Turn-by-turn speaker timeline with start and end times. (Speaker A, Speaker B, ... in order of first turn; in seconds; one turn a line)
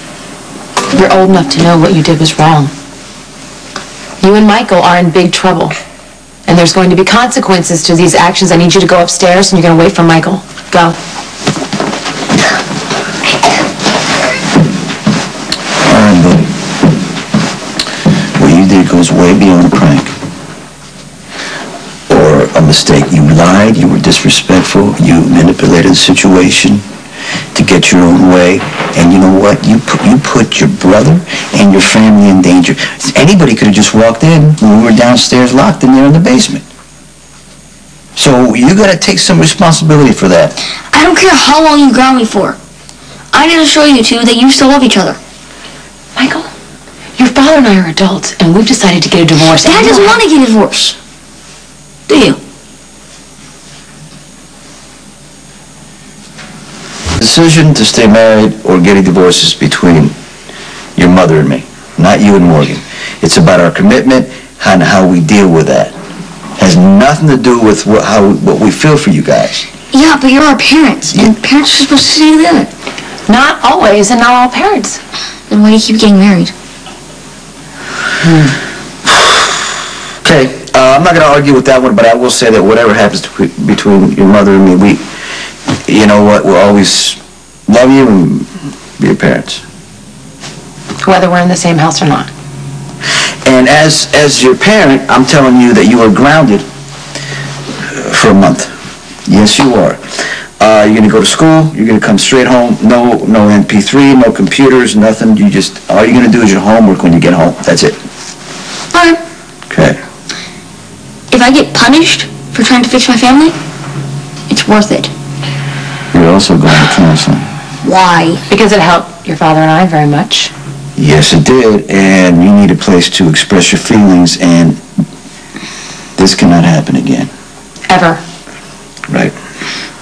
Speaker A: 0.9-2.7
Speaker A: 4.2-5.7
Speaker A: 6.5-11.0
Speaker B: 15.8-16.5
Speaker B: 18.4-20.1
Speaker B: 22.1-26.8
Speaker B: 27.5-36.6
Speaker B: 38.1-40.5
Speaker C: 40.9-42.6
Speaker C: 43.3-45.2
Speaker A: 46.1-46.5
Speaker A: 47.2-50.2
Speaker C: 49.5-51.0
Speaker C: 52.1-52.4
Speaker B: 57.2-60.1
Speaker B: 61.0-65.9
Speaker B: 66.6-69.6
Speaker C: 69.9-72.7
Speaker A: 73.3-75.0
Speaker C: 75.5-76.5
Speaker A: 78.2-78.5
Speaker B: 80.2-85.0
Speaker B: 85.8-89.6
Speaker A: 91.0-92.3
Speaker B: 93.4-96.6
Speaker B: 97.8-98.7
Speaker B: 99.3-100.0
Speaker B: 100.6-108.0
Speaker C: 108.9-109.2
Speaker B: 109.7-110.0
Speaker C: 111.3-113.6
Speaker C: 114.5-115.1
Speaker B: 116.1-117.5
Speaker C: 117.8-118.4
Speaker A: 118.5-120.5
Speaker B: 121.0-124.8
Speaker B: 126.2-127.3
Speaker A: 127.9-128.2
Speaker B: 129.1-129.3